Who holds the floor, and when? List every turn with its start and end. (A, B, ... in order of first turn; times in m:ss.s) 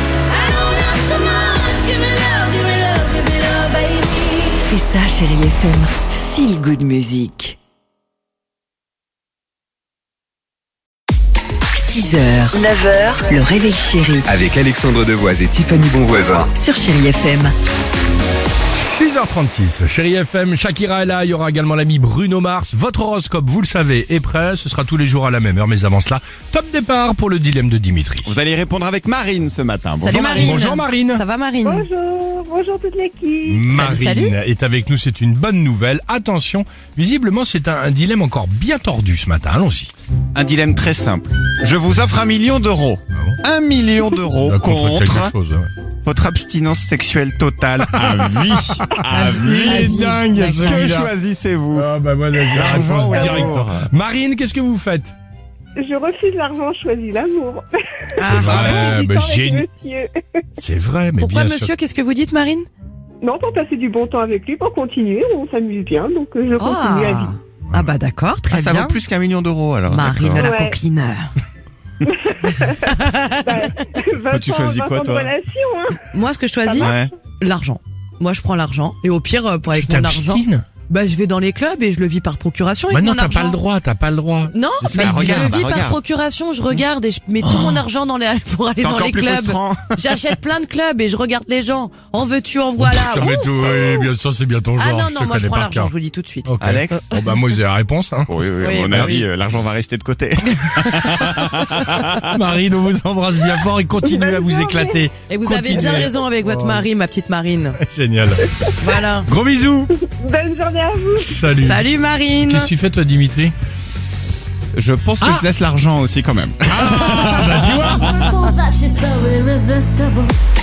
0:00.3-0:04.7 A
0:04.6-0:07.6 B
0:11.7-0:14.3 B
0:14.3-0:16.5 C
0:16.5-0:17.5 B
0:18.7-0:28.4 D
0:28.2-0:30.8 E
0:30.0-0:31.8 F
0:30.3-0:31.2 D
0:31.6-0:33.7 G
0:33.4-0:39.9 D
0:33.7-0:34.4 F
0:40.3-0:45.3 E
0:43.1-0:43.4 D
0:44.4-0:45.7 D
0:46.0-0:53.8 E
0:47.9-0:51.1 D
0:49.1-0:50.9 F
0:51.7-0:55.1 D
0:53.1-0:53.5 G
0:55.8-0:57.7 G
0:58.2-0:59.0 F
0:58.2-1:00.4 G
0:58.2-0:59.6 D
1:00.6-1:01.7 D
1:01.2-1:02.7 F
1:03.2-1:07.4 G
1:06.6-1:09.0 F
1:08.5-1:10.5 E
1:09.9-1:11.3 F
1:10.4-1:10.8 G
1:12.1-1:12.9 G
1:12.9-1:13.6 F
1:13.4-1:16.0 G
1:14.3-1:15.3 E
1:16.1-1:23.6 F
1:16.6-1:17.0 G
1:16.8-1:17.1 E
1:19.7-1:20.6 D
1:22.9-1:25.6 D
1:24.5-1:34.1 F
1:24.9-1:26.0 E
1:27.4-1:27.8 D
1:28.8-1:29.9 E
1:32.8-1:35.9 D
1:34.8-1:37.1 F
1:36.4-1:38.3 D
1:36.6-1:37.1 E
1:38.3-1:42.4 E
1:38.6-1:39.2 F
1:38.9-1:39.2 D
1:42.2-1:46.8 D
1:44.0-1:45.1 G
1:45.3-1:47.8 F
1:45.7-1:46.1 G
1:47.8-1:48.5 D
1:48.8-1:49.3 F
1:49.3-1:49.9 D
1:50.0-1:51.4 G
1:51.2-1:51.9 D
1:51.6-1:52.7 F
1:52.4-1:53.5 D
1:54.7-1:58.2 E
1:55.2-1:55.5 D
1:56.7-1:58.5 D
1:58.7-2:00.3 A